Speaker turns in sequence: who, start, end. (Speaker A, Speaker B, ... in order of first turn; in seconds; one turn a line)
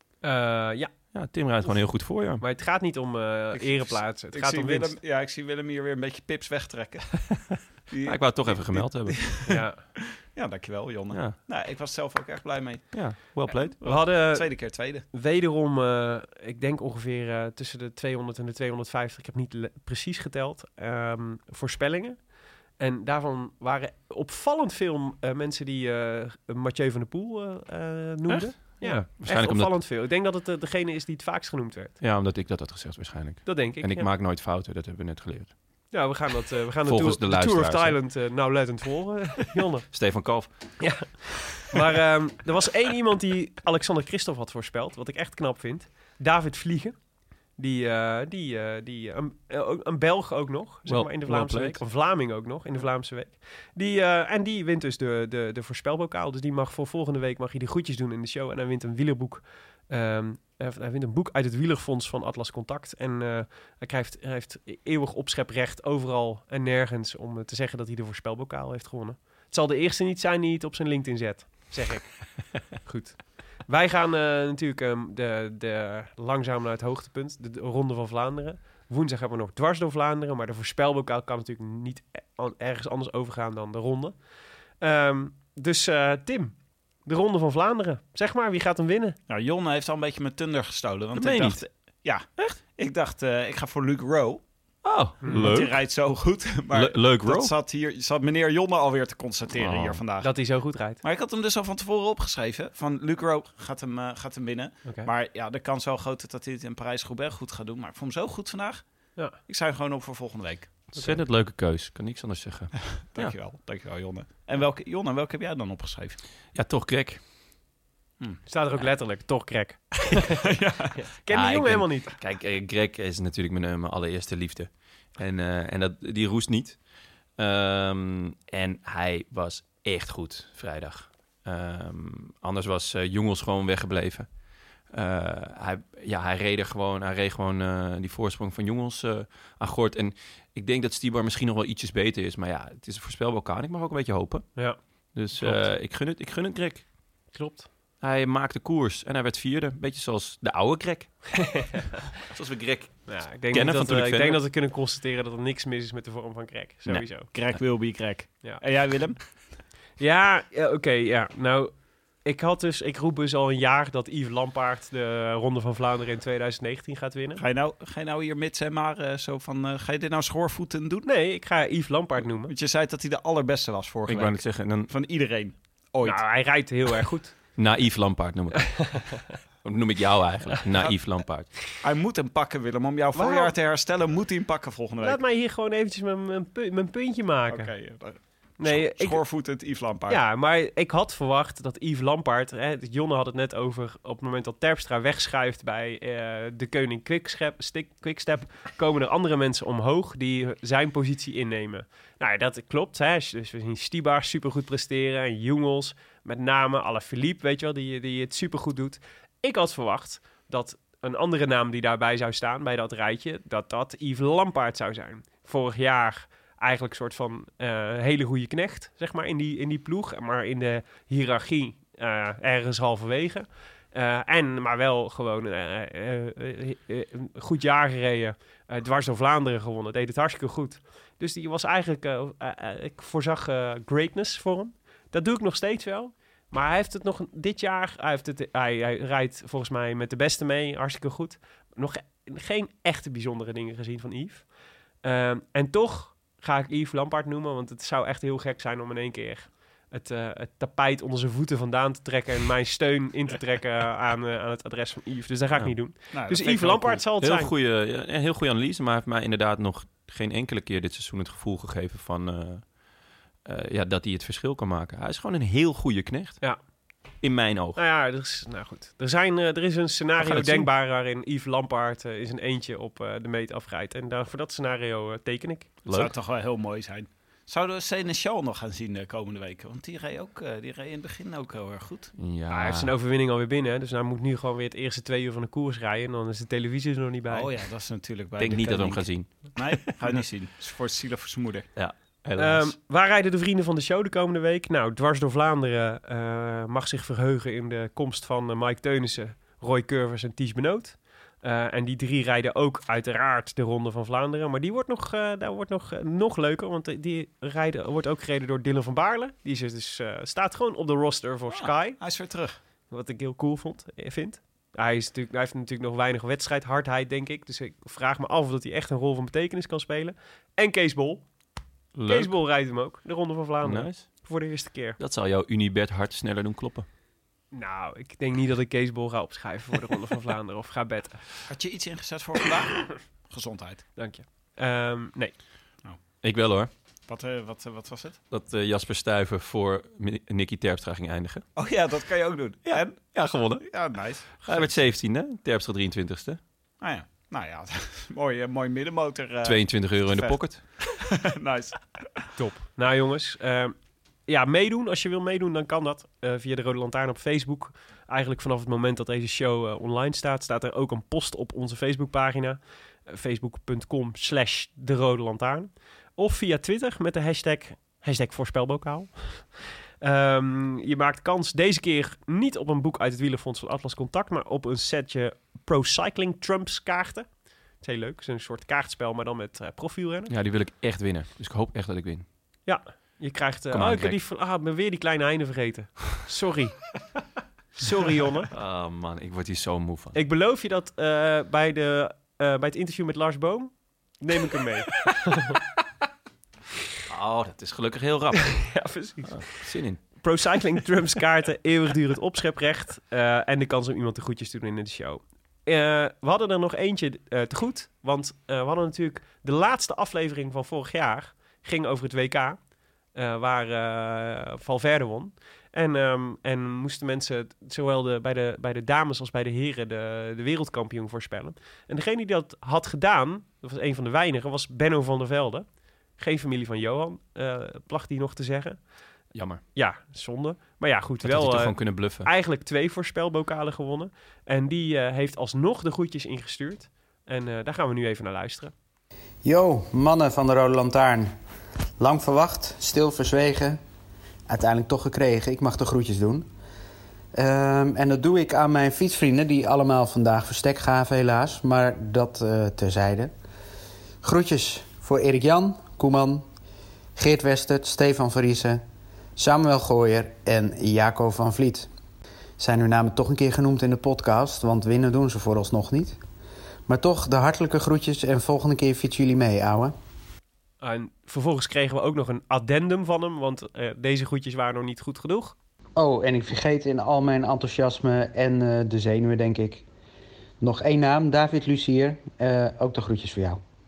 Speaker A: 0.2-0.9
Speaker B: 1.1-2.4
Speaker A: 2.4-5.0
Speaker C: 3.5-9.6
Speaker B: 8.0-9.3
Speaker A: 9.4-9.8
Speaker C: 10.2-15.0
Speaker B: 11.1-11.4
Speaker B: 12.9-13.8
Speaker A: 13.8-32.0
Speaker B: 28.3-29.7
Speaker B: 32.0-35.5
Speaker A: 33.4-34.1
Speaker A: 35.9-39.9
Speaker B: 36.8-38.0
Speaker B: 39.9-41.2
Speaker A: 40.8-47.0
Speaker A: 47.5-84.2
Speaker B: 50.9-51.8
Speaker A: 84.8-89.2
Speaker C: 89.3-94.4
Speaker B: 91.1-91.6
Speaker B: 94.8-95.8
Speaker A: 95.2-95.5
Speaker C: 95.3-110.9
Speaker B: 96.7-97.5
Speaker B: 99.5-100.0
Speaker A: 100.2-101.0
Speaker A: 104.8-105.1
Speaker B: 110.9-113.3
Speaker A: 110.9-111.2
Speaker C: 113.0-116.2
Speaker B: 116.5-117.2
Speaker A: 118.5-120.3
Speaker C: 120.3-120.9
Speaker A: 120.9-122.2
Speaker B: 121.3-126.8
Speaker B: 127.4-134.3
Speaker B: 134.9-144.5
Speaker B: 145.1-146.8
Speaker A: 145.3-145.7
Speaker A: 147.3-147.7
Speaker B: 148.0-151.7
Speaker A: 151.4-152.0
Speaker B: 152.2-154.4
Speaker A: 153.1-157.3
Speaker B: 156.8-157.6
Speaker C: 157.3-159.4
Speaker A: 160.0-167.4
Speaker C: 167.4-171.1
Speaker A: 171.0-172.5
Speaker C: 172.4-176.4
Speaker B: 174.1-174.9
Speaker A: 176.0-177.3
Speaker B: 177.6-181.5
Speaker C: 181.7-185.2
Speaker A: 183.1-183.5
Speaker A: 185.0-187.7
Speaker C: 187.5-190.2
Speaker A: 188.6-189.2
Speaker A: 190.1-244.5
Speaker A: 245.0-257.5
Speaker C: 256.1-257.0
Speaker B: 257.2-262.8
Speaker B: 263.4-266.4
Speaker B: 267.2-267.8
Speaker A: 267.8-275.7
Speaker B: 270.2-270.7
Speaker B: 275.8-276.1
Speaker C: 275.9-282.1
Speaker B: 282.2-282.9
Speaker A: 282.5-287.5
Speaker C: 287.3-291.7
Speaker B: 288.4-289.6
Speaker B: 291.7-292.7
Speaker A: 292.4-312.0
Speaker C: 311.5-312.6
Speaker A: 312.9-321.2
Speaker B: 321.9-322.4
Speaker A: 322.1-325.0
Speaker B: 323.6-324.1
Speaker B: 325.0-326.9
Speaker A: 327.5-331.2
Speaker C: 331.5-333.8
Speaker A: 334.0-335.4
Speaker B: 336.2-336.7
Speaker C: 337.1-338.2
Speaker B: 338.3-341.5
Speaker C: 341.6-344.8
Speaker B: 342.6-343.6
Speaker B: 344.4-346.4
Speaker C: 346.8-352.2
Speaker B: 349.4-350.6
Speaker A: 352.4-353.7
Speaker A: 354.3-377.3
Speaker A: 377.8-380.3
Speaker B: 380.3-382.2
Speaker A: 382.6-386.9
Speaker B: 383.7-384.2
Speaker A: 387.8-388.5
Speaker B: 388.5-390.2
Speaker A: 390.1-395.6
Speaker B: 397.1-400.0
Speaker A: 398.4-412.6
Speaker A: 413.1-425.6
Speaker A: 426.2-428.8
Speaker B: 429.3-429.6
Speaker A: 429.7-438.7
Speaker B: 431.2-432.3
Speaker D: 439.4-441.3
Speaker D: 442.0-443.8
Speaker D: 444.5-446.5
Speaker D: 447.3-453.3
Speaker D: 454.2-456.4
Speaker D: 457.1-458.8
Speaker D: 459.4-461.9
Speaker D: 462.6-466.2
Speaker D: 466.9-469.9
Speaker A: 470.8-475.5
Speaker D: 476.0-479.8
Speaker D: 480.6-483.6